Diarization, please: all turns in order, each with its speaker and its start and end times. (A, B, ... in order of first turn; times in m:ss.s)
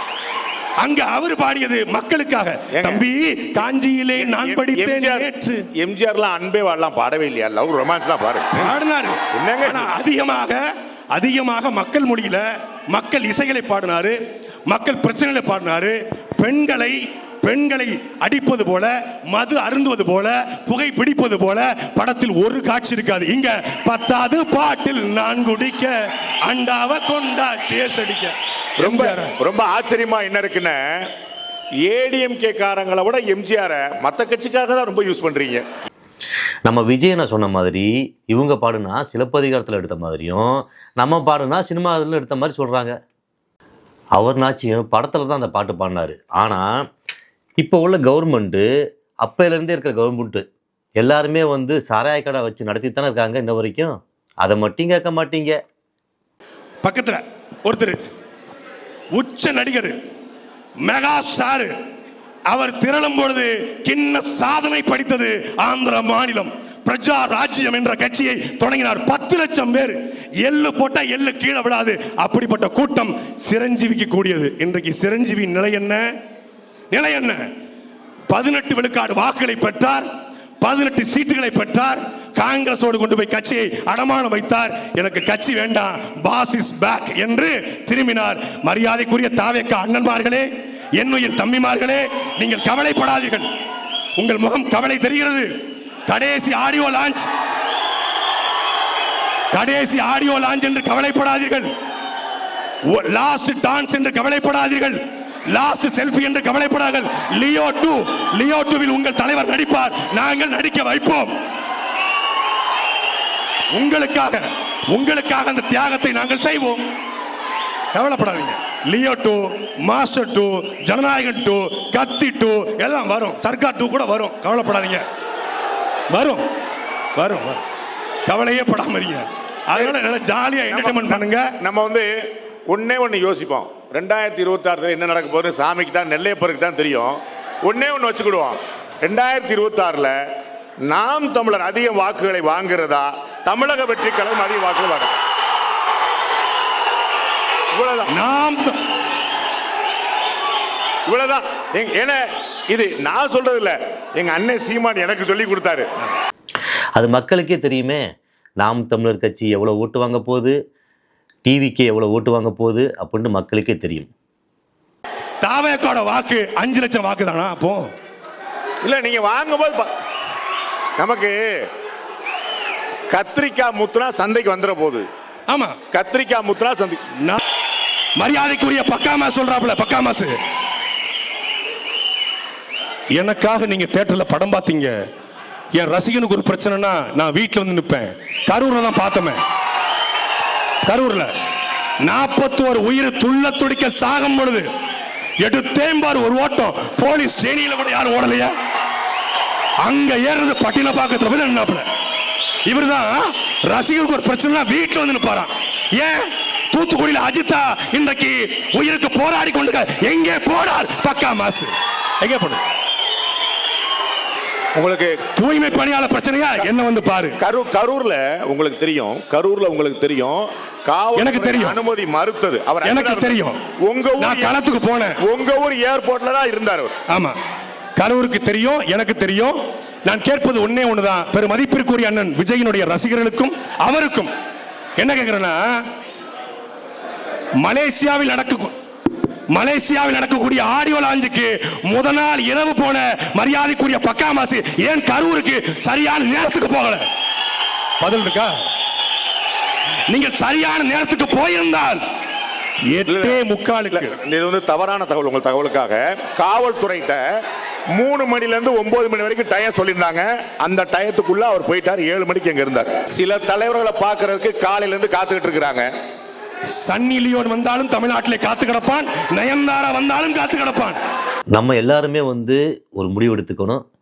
0:00.8-0:05.6 A
0:02.7-0:03.0 B
0:04.2-0:08.7 B
0:08.6-0:10.6 A
0:09.3-0:09.9 B
0:11.1-0:25.9 A
0:26.4-0:29.3 A
0:28.8-0:31.1 B
0:31.9-0:35.6 B
0:36.7-0:43.0 C
0:44.2-0:46.7 C
0:47.6-0:48.7 C
0:49.2-0:50.4 C
0:51.0-0:55.6 C
0:56.8-0:58.0 A
0:59.2-1:00.0 A
1:00.8-1:01.7 A
1:02.5-1:16.1 A
1:16.9-1:17.4 A
1:18.3-1:20.1 A
1:20.6-1:33.5 A
1:34.2-1:35.5 A
1:36.1-1:37.3 A
1:39.5-1:41.7 A
1:42.9-1:45.0 A
1:45.5-1:51.3 A
1:53.7-1:56.9 A
1:57.9-2:05.0 A
2:06.1-2:06.4 A
2:07.2-2:07.6 A
2:08.3-2:11.5 A
2:10.7-2:12.1 B
2:12.7-2:20.2 B
2:20.8-2:25.1 B
2:27.7-2:28.1 B
2:28.1-2:28.8 A
2:31.1-2:35.9 B
2:37.0-2:38.0 C
2:38.6-2:40.5 C
2:41.4-2:44.1 C
2:45.4-2:47.9 A
2:48.8-2:49.9 B
2:51.0-2:51.4 B
2:53.1-2:55.1 B
2:55.5-2:55.8 A
2:55.9-2:57.0 B
2:58.2-3:00.4 A
3:03.2-3:04.9 A
3:05.8-3:09.4 A
3:10.8-3:11.3 A
3:12.0-3:14.7 A
3:15.4-3:18.5 A
3:19.8-3:21.9 A
3:22.7-3:32.6 A
3:34.8-3:35.2 B
3:35.4-3:37.4 A
3:37.4-3:44.6 B
3:41.2-3:41.8 A
3:42.8-3:43.6 A
3:44.2-3:45.2 A
3:45.2-3:46.9 B
3:47.1-3:47.4 A
3:48.0-3:54.3 A
3:55.0-3:55.7 A
3:57.6-3:58.8 A
3:59.5-4:07.0 A
4:08.0-4:08.5 A
4:10.1-4:12.0 A
4:12.9-4:14.2 A
4:13.1-4:13.4 B
4:13.9-4:17.2 B
4:18.0-4:25.9 B
4:26.8-4:31.0 A
4:31.6-4:33.8 C